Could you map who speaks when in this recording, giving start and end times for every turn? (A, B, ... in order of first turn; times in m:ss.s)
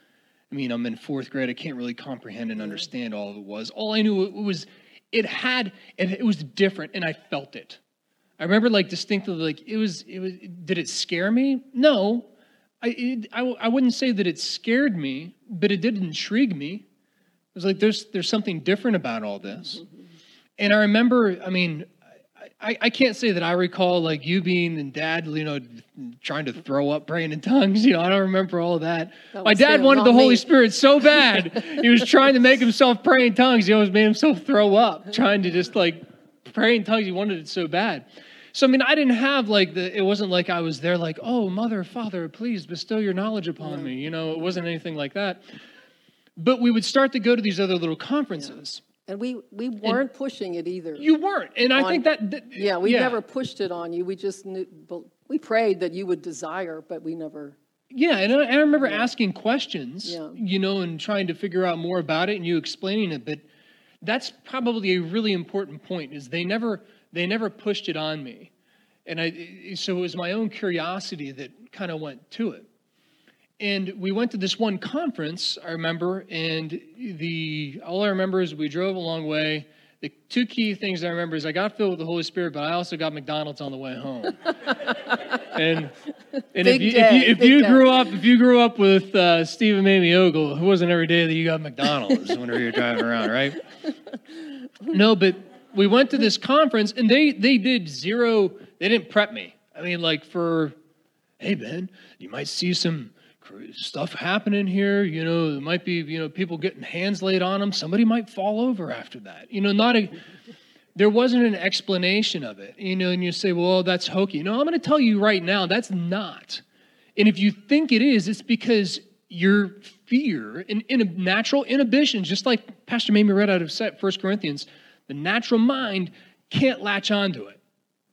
0:00.5-0:07.8 A
0:08.4-0:12.3 A
0:12.8-0:16.8 A
0:17.5-0:19.8 A
0:20.6-0:21.9 A
0:22.4-0:45.4 A
0:29.3-0:30.4 B
0:43.6-0:43.9 B
0:46.4-0:48.8 A
0:49.0-0:51.0 B
0:51.0-0:53.2 A
0:51.7-0:57.6 B
0:57.9-1:03.4 A
0:58.8-0:59.1 B
1:00.0-1:00.4 B
1:04.0-1:08.5 A
1:09.0-1:12.6 A
1:13.6-1:24.7 A
1:25.4-1:25.9 A
1:26.5-1:33.6 A
1:26.6-1:27.9 B
1:34.9-1:40.7 A
1:41.4-1:50.2 A
1:50.9-1:56.6 A
1:57.2-2:07.6 A